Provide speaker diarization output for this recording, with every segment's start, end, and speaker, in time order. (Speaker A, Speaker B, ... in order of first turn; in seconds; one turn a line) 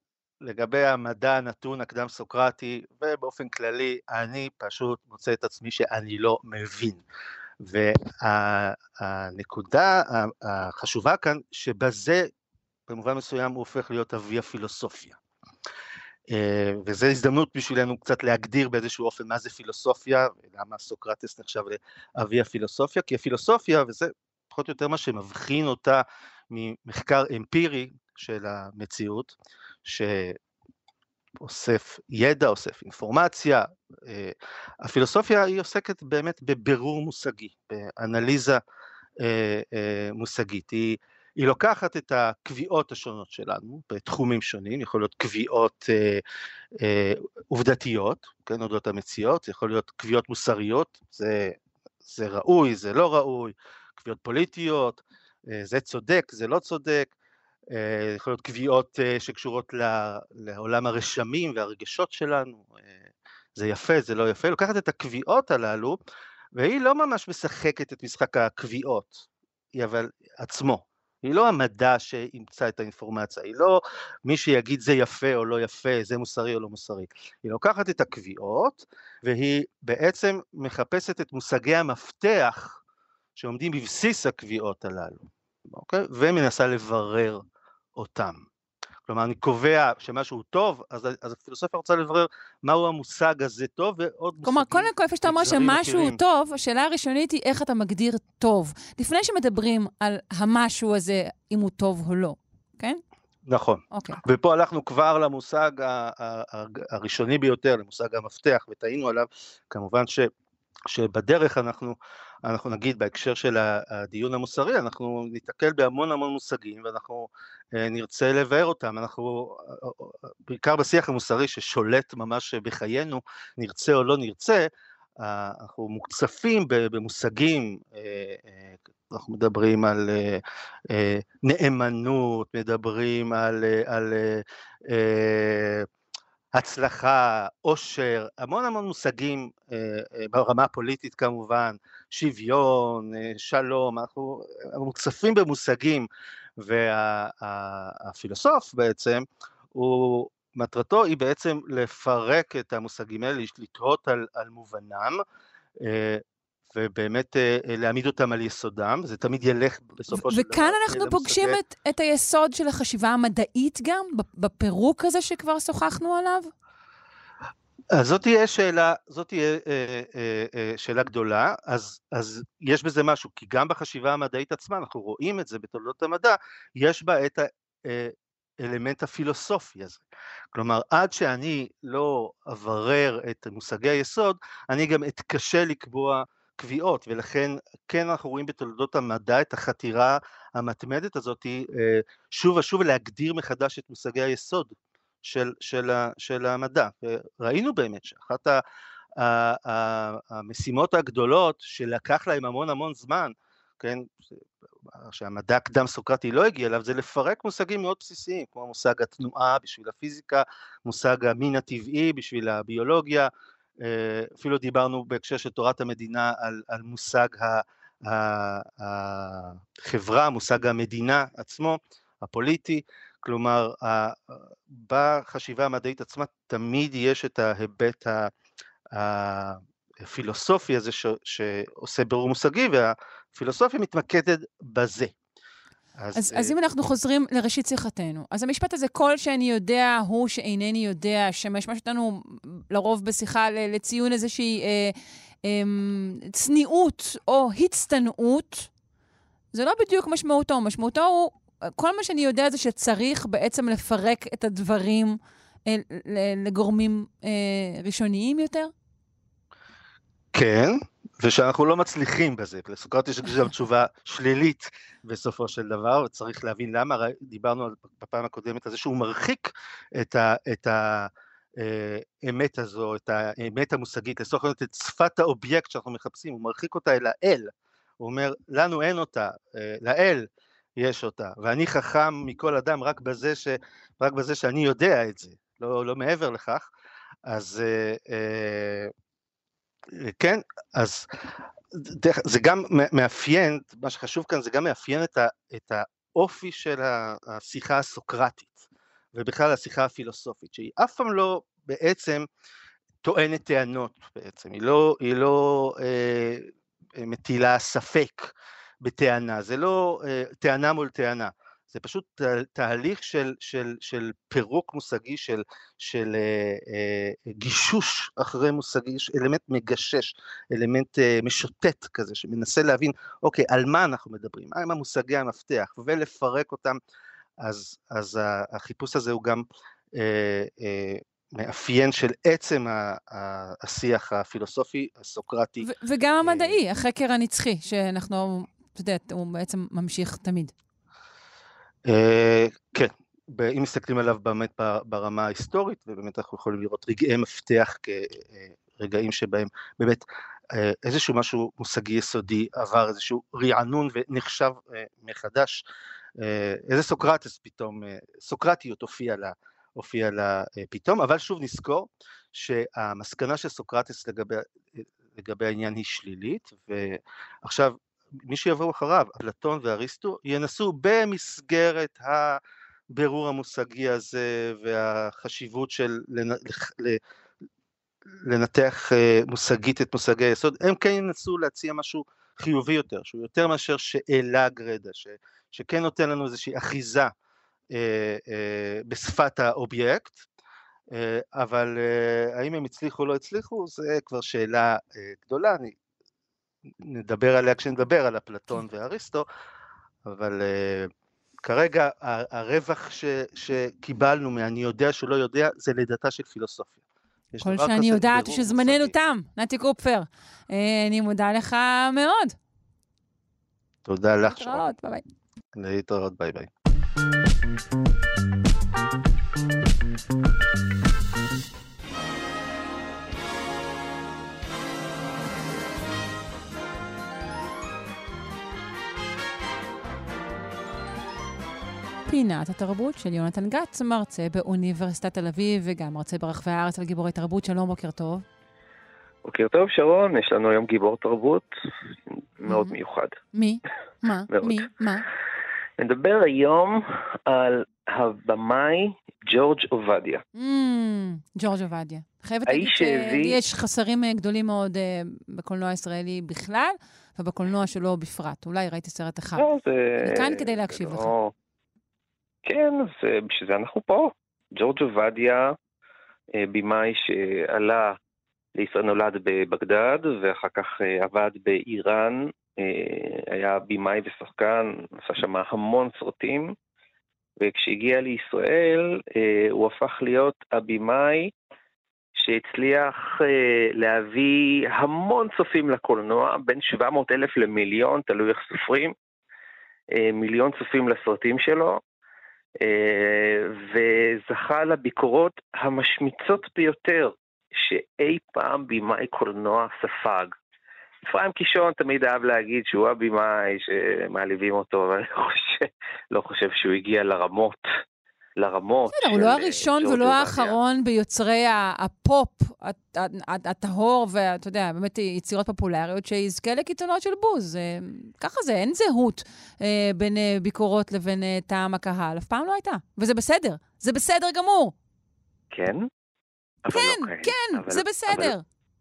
Speaker A: 0.4-7.0
Speaker A: 7.6-12.3
Speaker A: 12.9-15.2
Speaker A: 16.3-29.3
Speaker A: 29.9-30.4
Speaker A: 31.4-38.6
Speaker A: 39.2-46.2
Speaker A: 46.8-57.1
Speaker A: 57.7-63.0
Speaker A: 63.6-66.0
Speaker A: 66.5-82.8
Speaker A: 83.4-87.4
Speaker A: 88.0-88.4
Speaker A: 89.1-96.2
Speaker B: 94.4-103.0
Speaker A: 103.5-110.3
Speaker B: 103.9-104.2
Speaker A: 110.9-124.7
Speaker A: 125.2-135.9
Speaker A: 136.5-146.1
Speaker A: 146.6-155.2
Speaker A: 155.8-156.2
Speaker A: 156.7-161.6
Speaker B: 160.1-166.5
Speaker A: 167.9-198.6
Speaker A: 199.2-204.2
Speaker A: 205.0-228.3
Speaker A: 228.9-235.2
Speaker A: 236.0-236.5
Speaker B: 236.2-248.7
Speaker B: 249.5-258.7
Speaker A: 260.3-286.7
Speaker A: 287.3-288.9
Speaker A: 289.9-291.1
Speaker A: 291.7-302.3
Speaker A: 303.0-308.3
Speaker A: 308.8-326.8
Speaker A: 327.4-335.7
Speaker B: 335.6-340.5
Speaker A: 336.2-336.6
Speaker A: 341.9-355.6
Speaker A: 356.2-377.0
Speaker A: 378.2-387.1
Speaker A: 387.7-390.3
Speaker A: 390.9-395.7
Speaker A: 396.8-399.3
Speaker A: 400.1-400.9
Speaker A: 401.4-406.8
Speaker A: 407.3-408.9
Speaker B: 407.4-412.4
Speaker A: 413.9-414.6
Speaker B: 414.2-415.0
Speaker A: 415.6-416.5
Speaker B: 432.1-438.2
Speaker C: 439.2-441.5
Speaker C: 442.4-443.2
Speaker B: 442.4-442.7
Speaker B: 443.3-445.1
Speaker C: 444.3-444.6
Speaker C: 445.8-450.2
Speaker B: 450.4-459.4
Speaker C: 452.5-453.4
Speaker C: 459.4-461.3
Speaker B: 460.0-461.1
Speaker C: 462.4-465.5
Speaker C: 466.4-467.9
Speaker C: 468.6-476.5
Speaker C: 477.4-481.3
Speaker C: 482.1-488.9
Speaker C: 489.9-491.8
Speaker C: 492.6-500.3
Speaker C: 501.1-507.6
Speaker C: 508.4-510.6
Speaker B: 508.9-524.7
Speaker C: 525.5-525.9
Speaker C: 526.6-528.4
Speaker B: 526.7-528.4